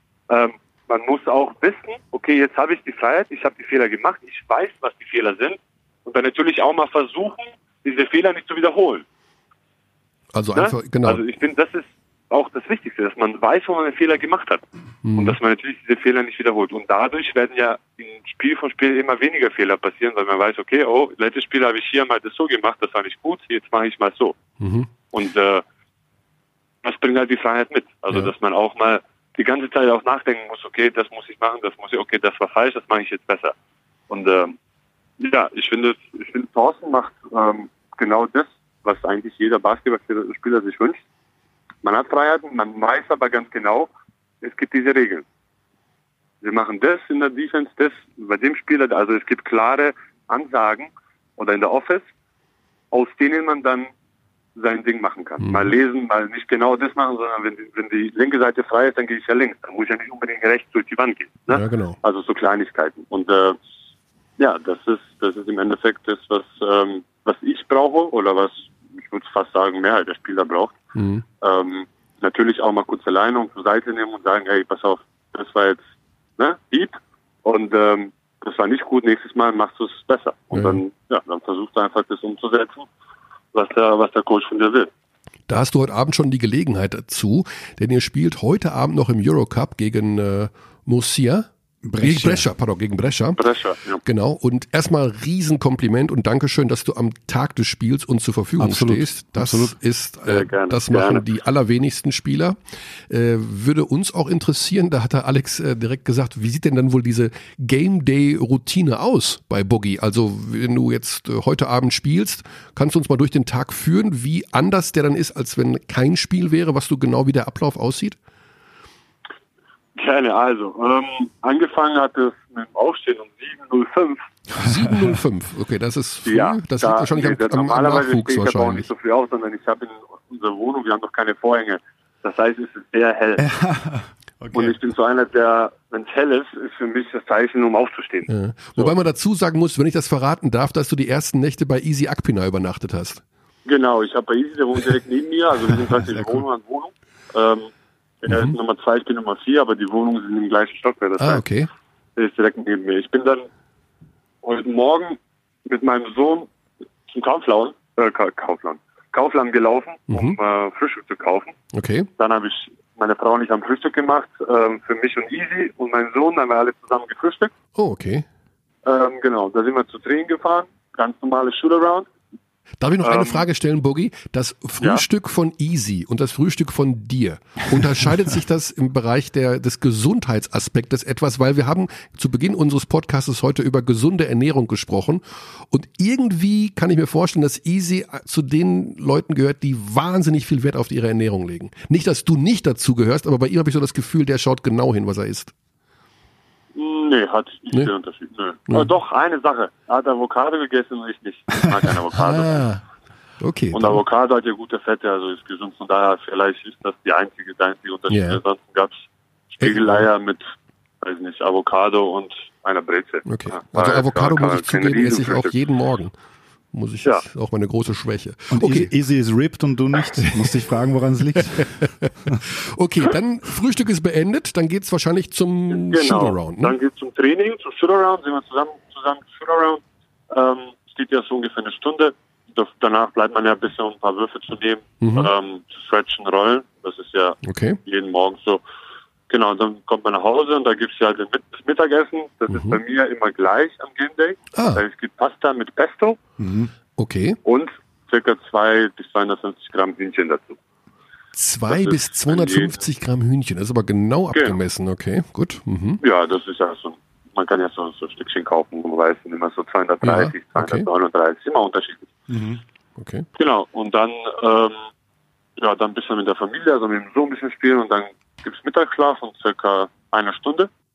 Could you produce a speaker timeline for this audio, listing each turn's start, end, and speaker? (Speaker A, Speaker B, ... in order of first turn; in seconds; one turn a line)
Speaker A: 0.3-9.1
Speaker B: 10.3-11.2
Speaker A: 10.6-24.4
Speaker B: 15.1-15.4
Speaker B: 24.6-24.9
Speaker A: 25.1-25.6
Speaker A: 26.8-33.5
Speaker A: 34.1-34.5
Speaker A: 35.2-41.0
Speaker A: 41.8-43.9
Speaker A: 44.4-45.2
Speaker A: 46.4-52.1
Speaker A: 52.9-53.9
Speaker A: 54.6-63.6
Speaker B: 55.4-55.7
Speaker B: 61.5-62.0
Speaker A: 64.4-70.8
Speaker B: 71.0-71.2
Speaker A: 71.4-75.8
Speaker A: 76.4-82.9
Speaker B: 80.5-80.8
Speaker A: 83.5-84.9
Speaker B: 85.5-91.5
Speaker C: 91.8-92.5
Speaker B: 92.0-93.4
Speaker A: 93.4-94.0
Speaker B: 94.0-102.6
Speaker C: 98.6-99.8
Speaker A: 100.3-101.2
Speaker B: 103.1-118.2
Speaker A: 120.0-124.2
Speaker B: 124.6-128.9
Speaker A: 126.3-133.5
Speaker C: 133.4-134.8
Speaker A: 134.5-138.9
Speaker B: 138.3-143.2
Speaker A: 143.7-147.7
Speaker A: 148.2-151.4
Speaker B: 148.3-148.6
Speaker B: 151.2-151.7
Speaker A: 152.2-153.4
Speaker A: 154.4-156.5
Speaker A: 157.1-161.6
Speaker B: 160.1-160.4
Speaker B: 161.7-162.1
Speaker A: 162.2-167.5
Speaker B: 167.8-168.2
Speaker A: 168.8-172.1
Speaker B: 172.8-195.5
Speaker A: 173.0-173.4
Speaker A: 196.8-202.7
Speaker B: 202.2-202.8
Speaker B: 203.4-204.0
Speaker A: 203.7-209.0
Speaker B: 208.1-208.4
Speaker A: 209.6-210.4
Speaker B: 209.6-210.1
Speaker A: 211.0-215.5
Speaker B: 213.3-216.1
Speaker B: 216.7-218.9
Speaker C: 218.5-222.4
Speaker B: 222.7-226.8
Speaker A: 225.7-238.6
Speaker B: 235.0-235.3
Speaker B: 237.4-237.8
Speaker A: 239.3-246.2
Speaker B: 242.5-242.8
Speaker B: 244.6-244.8
Speaker C: 246.4-246.7
Speaker B: 247.0-247.4
Speaker A: 247.4-250.6
Speaker B: 251.3-256.0
Speaker A: 251.7-252.8
Speaker A: 256.0-262.1
Speaker B: 260.0-260.9
Speaker C: 262.3-262.6
Speaker B: 263.0-263.3
Speaker A: 263.4-264.9
Speaker A: 265.6-270.7